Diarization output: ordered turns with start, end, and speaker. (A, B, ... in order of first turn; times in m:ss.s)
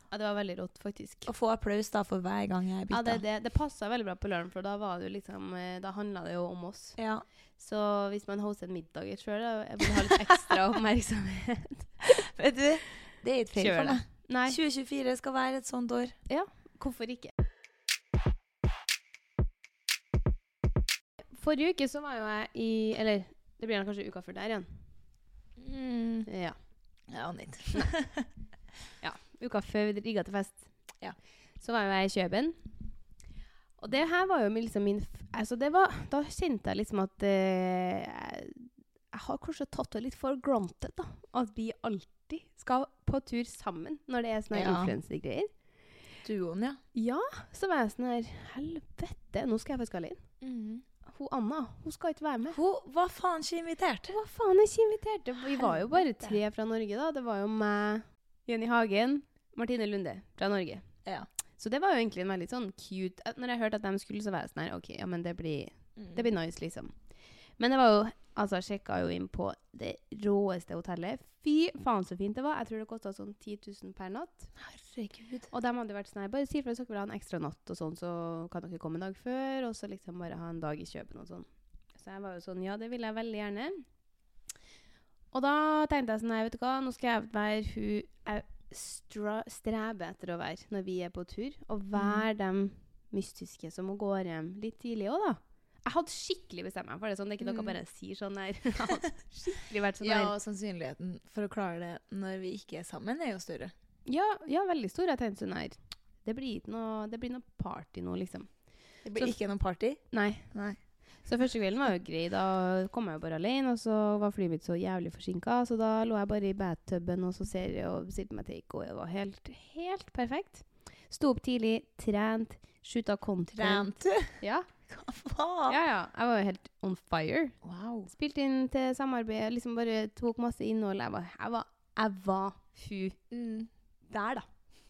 0:00.1-0:01.3 A
0:01.3-0:03.2 B
0:02.9-0:07.0 A
0:07.0-0:07.2 B
0:07.6-0:11.9 A
0:12.2-0:16.1 B
0:13.6-0:14.6 A
0:16.3-0:17.3 A
0:21.3-0:24.7 A
0:25.6-0:26.3 B
0:26.3-0:26.6 A
0:27.1-0:28.3 B
0:29.0-0:30.7 A
0:31.6-0:32.5 A
0:33.8-0:45.5 A
0:44.5-0:44.9 B
0:46.2-0:46.8 B
0:46.9-0:50.2 A
0:50.4-0:50.8 B
0:51.0-0:52.6 A
0:52.5-0:54.1 B
0:54.1-1:00.8 A
0:55.6-0:56.4 B
1:01.6-1:06.9 A
1:06.0-1:06.2 B
1:07.6-1:14.5 A
1:14.6-1:15.5 B
1:15.5-1:23.8 A
1:25.3-1:40.3 A
1:31.9-1:32.2 B
1:37.4-1:37.8 B
1:40.0-1:43.7 B
1:44.0-1:48.5 A
1:49.0-1:50.8 B
1:50.1-1:50.5 A
1:51.2-2:04.7 A
2:03.5-2:04.4 B
2:04.9-2:05.8 B
2:05.7-2:13.2 A
2:07.6-2:08.1 B
2:13.3-2:13.7 B
2:14.1-2:14.5 A